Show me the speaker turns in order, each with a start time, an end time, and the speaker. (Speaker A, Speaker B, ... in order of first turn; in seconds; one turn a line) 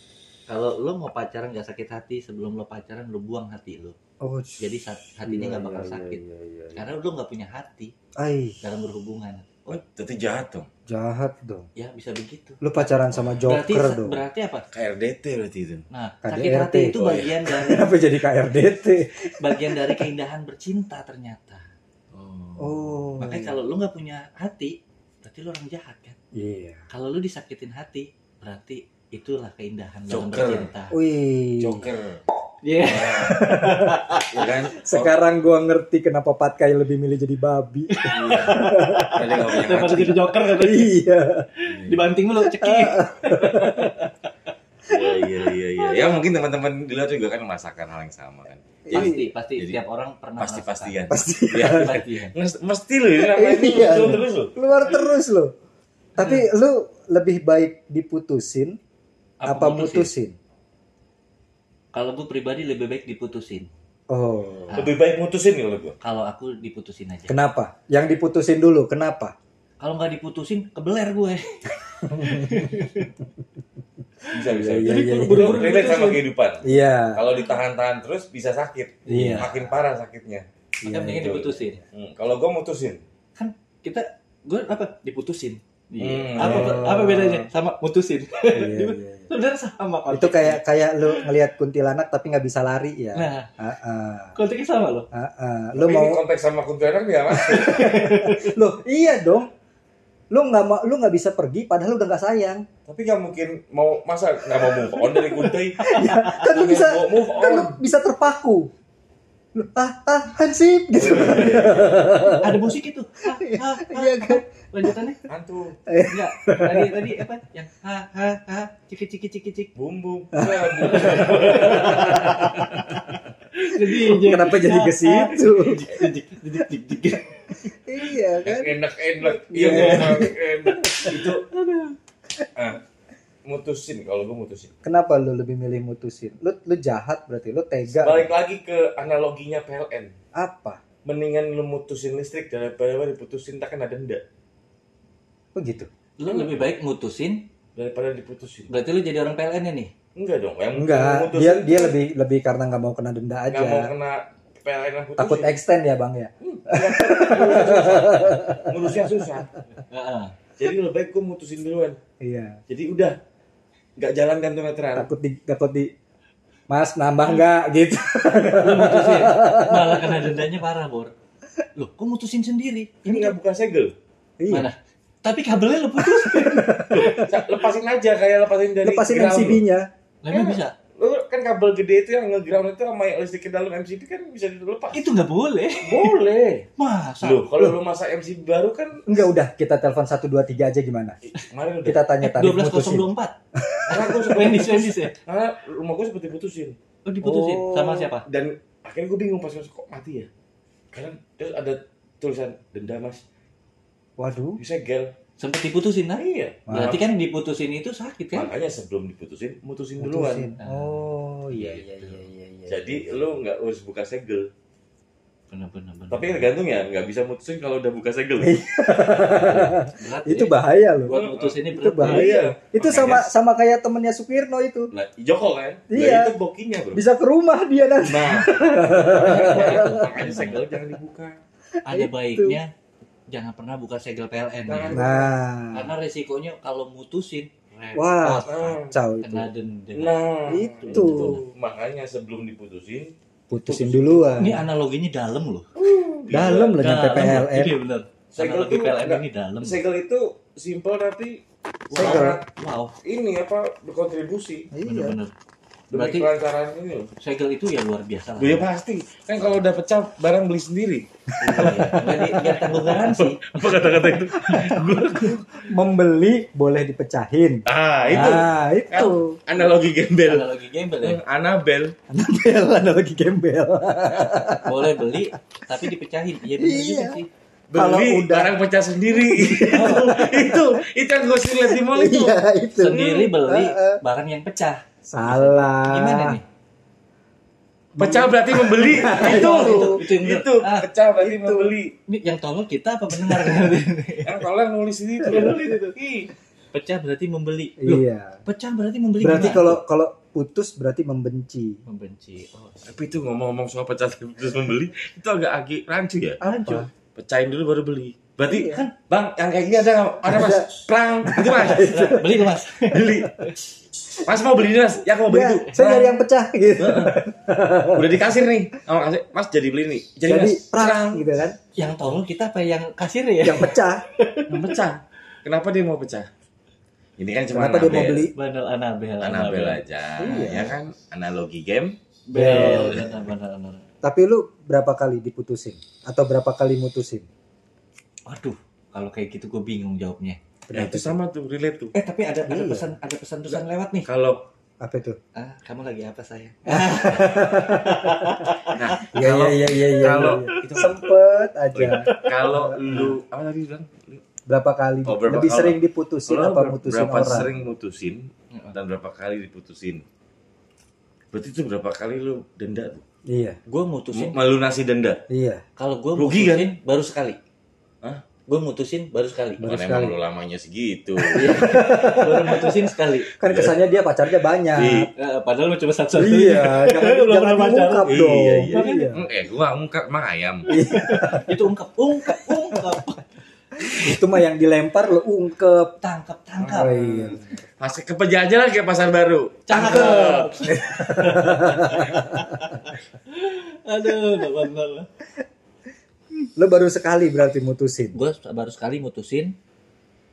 Speaker A: 0.5-4.0
Speaker B: 4.2-4.6
Speaker A: 4.6-6.2
Speaker B: 5.2-6.8
Speaker A: 6.7-7.9
Speaker B: 8.2-8.6
Speaker A: 8.6-9.8
Speaker C: 9.7-10.7
Speaker B: 10.9-11.7
Speaker A: 11.8-12.9
Speaker B: 12.6-14.2
Speaker A: 13.4-14.6
Speaker C: 14.7-15.8
Speaker A: 15.9-17.9
Speaker B: 16.2-17.0
Speaker C: 16.9-17.4
Speaker B: 17.5-20.1
Speaker A: 19.4-21.6
Speaker C: 22.1-23.0
Speaker B: 22.6-23.6
Speaker A: 23.2-26.2
Speaker B: 26.3-26.8
Speaker A: 26.9-30.9
Speaker C: 30.1-30.7
Speaker B: 30.9-31.9
Speaker C: 31.6-32.2
Speaker A: 32.6-34.5
Speaker C: 32.8-33.6
Speaker B: 33.1-39.1
Speaker C: 34.3-35.2
Speaker A: 37.9-40.9
Speaker C: 38.1-40.3
Speaker B: 40.5-41.5
Speaker A: 41.6-44.1
Speaker C: 41.7-42.1
Speaker B: 42.6-44.1
Speaker C: 44.9-49.8
Speaker B: 44.9-46.2
Speaker B: 48.9-49.2
Speaker A: 48.9-52.3
Speaker C: 50.4-54.5
Speaker B: 51.1-51.9
Speaker B: 53.2-55.5
Speaker B: 56.2-58.8
Speaker A: 56.2-56.5
Speaker A: 59.4-60.1
Speaker B: 59.5-60.4
Speaker A: 61.9-63.7
Speaker B: 64.1-64.8
Speaker A: 64.7-64.9
Speaker C: 64.8-66.0
Speaker A: 66.0-67.4
Speaker B: 67.3-69.3
Speaker A: 69.8-73.1
Speaker B: 72.0-72.9
Speaker C: 74.3-80.5
Speaker B: 74.4-75.7
Speaker A: 74.8-76.2
Speaker B: 76.6-77.2
Speaker A: 79.1-79.5
Speaker B: 79.1-79.5
Speaker B: 80.8-81.3
Speaker A: 80.8-81.8
Speaker C: 81.0-83.0
Speaker A: 83.3-91.3
Speaker C: 86.0-86.9
Speaker B: 86.4-87.5
Speaker B: 88.5-89.3
Speaker B: 90.1-94.3
Speaker A: 93.1-93.5
Speaker A: 94.3-95.1
Speaker B: 95.1-96.2
Speaker C: 95.8-97.9
Speaker B: 97.4-99.5
Speaker A: 97.5-98.5
Speaker B: 100.3-102.7
Speaker C: 102.9-107.8
Speaker B: 104.7-105.0
Speaker A: 105.8-106.5
Speaker B: 105.8-108.7
Speaker B: 109.5-112.7
Speaker C: 110.9-112.3
Speaker A: 112.3-115.2
Speaker B: 113.3-114.4
Speaker C: 115.3-115.8
Speaker B: 115.9-117.2
Speaker A: 116.0-119.7
Speaker C: 119.8-122.6
Speaker B: 120.3-123.1
Speaker A: 120.8-127.7
Speaker B: 123.8-125.9
Speaker B: 127.7-128.7
Speaker C: 128.4-131.4
Speaker A: 129.3-132.0
Speaker B: 129.5-130.3
Speaker C: 133.4-134.7
Speaker B: 134.8-138.3
Speaker C: 138.0-140.1
Speaker B: 140.3-140.8
Speaker C: 141.0-144.2
Speaker B: 145.5-145.9
Speaker A: 146.2-147.4
Speaker C: 146.2-146.7
Speaker C: 147.8-148.7
Speaker A: 148.7-149.9
Speaker C: 150.1-151.9
Speaker B: 150.7-153.9
Speaker C: 153.5-155.5
Speaker B: 155.2-159.2
Speaker C: 156.4-159.5
Speaker A: 159.8-160.3
Speaker C: 160.6-161.9
Speaker B: 162.2-162.6
Speaker C: 162.7-163.1
Speaker C: 164.0-165.1
Speaker B: 164.9-165.9
Speaker B: 166.7-170.3
Speaker A: 168.6-171.1
Speaker A: 171.8-173.3
Speaker C: 173.0-173.9
Speaker B: 174.4-174.7
Speaker A: 174.5-177.2
Speaker B: 176.0-177.4
Speaker C: 176.9-179.6
Speaker B: 178.8-179.9
Speaker A: 180.2-180.7
Speaker C: 180.3-185.0
Speaker A: 184.9-186.1
Speaker C: 185.8-186.7
Speaker A: 186.8-187.6
Speaker C: 187.2-189.1
Speaker B: 189.1-191.2
Speaker C: 191.4-192.1
Speaker B: 191.8-194.2
Speaker A: 192.2-193.3
Speaker C: 193.9-196.8
Speaker A: 194.0-195.2
Speaker A: 197.1-198.2
Speaker B: 197.2-198.1
Speaker C: 198.2-200.3
Speaker C: 200.9-203.2
Speaker B: 204.2-204.6
Speaker C: 204.6-205.1
Speaker A: 205.4-208.5
Speaker C: 206.2-207.0
Speaker B: 206.7-207.0
Speaker C: 208.3-210.5
Speaker B: 210.0-213.1
Speaker A: 210.6-211.0
Speaker A: 211.5-212.2
Speaker C: 212.7-214.5
Speaker A: 215.5-216.5
Speaker C: 216.1-219.7
Speaker B: 218.4-221.2
Speaker A: 219.8-222.4
Speaker C: 221.1-223.3
Speaker B: 221.7-224.9
Speaker C: 224.9-227.0
Speaker B: 225.9-226.3
Speaker B: 226.9-230.0
Speaker C: 228.0-231.4
Speaker A: 229.1-230.8
Speaker B: 231.8-232.6
Speaker A: 231.9-232.7
Speaker A: 233.3-235.1
Speaker C: 234.7-235.3
Speaker B: 234.9-235.9
Speaker A: 235.7-240.1
Speaker B: 237.9-239.5
Speaker C: 238.2-238.9
Speaker C: 239.9-243.1
Speaker B: 240.5-241.4
Speaker A: 240.8-241.4
Speaker B: 243.5-244.6
Speaker C: 243.6-244.5
Speaker A: 244.4-245.7
Speaker C: 245.8-246.8
Speaker B: 246.3-247.7
Speaker A: 246.4-249.8
Speaker C: 248.3-251.4
Speaker A: 251.9-252.9
Speaker C: 251.9-252.4
Speaker B: 251.9-252.4
Speaker C: 253.0-254.7
Speaker B: 254.7-255.2
Speaker A: 254.8-255.3
Speaker C: 255.9-257.1
Speaker A: 255.9-256.3
Speaker A: 257.2-258.6
Speaker C: 258.4-265.4
Speaker B: 261.4-262.5
Speaker A: 261.4-263.4
Speaker A: 264.4-265.3
Speaker B: 264.5-269.4
Speaker C: 267.7-270.5
Speaker A: 268.1-268.4
Speaker A: 270.2-271.2
Speaker C: 271.0-271.9
Speaker B: 272.1-275.2
Speaker A: 274.6-277.3
Speaker B: 276.6-277.2
Speaker C: 277.7-282.4
Speaker B: 277.7-278.5
Speaker B: 279.1-280.8
Speaker A: 279.7-280.3
Speaker B: 281.7-284.0
Speaker A: 282.8-286.4
Speaker B: 285.1-286.4
Speaker B: 287.9-290.0
Speaker C: 288.0-291.9
Speaker A: 289.0-290.9
Speaker B: 291.2-291.7
Speaker A: 292.1-294.4
Speaker C: 294.2-296.3
Speaker B: 295.2-295.5
Speaker A: 295.3-296.0
Speaker A: 296.7-299.8
Speaker B: 297.8-298.4
Speaker B: 299.2-301.8
Speaker A: 301.9-302.9
Speaker C: 302.8-306.4
Speaker A: 306.4-306.8
Speaker B: 306.4-306.9
Speaker C: 307.1-312.3
Speaker B: 308.5-308.8
Speaker B: 310.2-312.5
Speaker A: 311.9-313.5
Speaker C: 312.9-313.5
Speaker C: 314.1-316.2
Speaker B: 315.2-318.2
Speaker C: 316.8-317.1
Speaker C: 317.9-321.3
Speaker B: 320.2-321.6
Speaker A: 321.8-324.5
Speaker B: 323.4-324.0
Speaker C: 324.5-326.3
Speaker C: 327.2-328.3
Speaker B: 327.5-328.3
Speaker A: 328.3-329.8
Speaker C: 329.2-333.1
Speaker B: 330.2-330.7
Speaker A: 332.3-333.8
Speaker B: 332.3-333.1
Speaker B: 334.0-337.2
Speaker A: 338.3-340.4
Speaker B: 340.7-341.2
Speaker C: 340.7-341.9
Speaker A: 341.9-344.1
Speaker B: 342.4-343.0
Speaker C: 343.5-344.4
Speaker B: 344.8-345.2
Speaker A: 345.3-349.0
Speaker B: 346.7-348.5
Speaker C: 348.7-351.1
Speaker B: 349.0-353.1
Speaker A: 350.2-350.9
Speaker C: 351.7-354.2
Speaker A: 351.9-352.4
Speaker B: 354.5-357.5
Speaker C: 355.0-360.0
Speaker C: 361.3-363.0
Speaker B: 363.3-363.6
Speaker A: 363.7-364.4
Speaker C: 364.1-365.2
Speaker B: 365.3-365.6
Speaker A: 365.8-367.4
Speaker C: 366.1-366.7
Speaker A: 368.5-369.7
Speaker B: 369.6-370.1
Speaker C: 369.6-371.8
Speaker A: 371.3-373.3
Speaker B: 371.3-372.8
Speaker B: 373.4-375.1
Speaker C: 373.4-373.8
Speaker C: 374.7-375.1
Speaker A: 375.1-378.1
Speaker B: 376.1-379.2
Speaker C: 378.0-380.7
Speaker A: 378.7-379.3
Speaker B: 380.7-381.6
Speaker A: 380.7-383.3
Speaker B: 382.3-383.0
Speaker A: 383.8-384.2
Speaker B: 383.9-385.9
Speaker A: 386.0-387.5
Speaker B: 386.6-387.5
Speaker C: 387.8-391.1
Speaker A: 389.7-395.1
Speaker B: 389.8-390.2
Speaker B: 390.8-392.7
Speaker B: 396.6-398.2
Speaker A: 398.1-399.5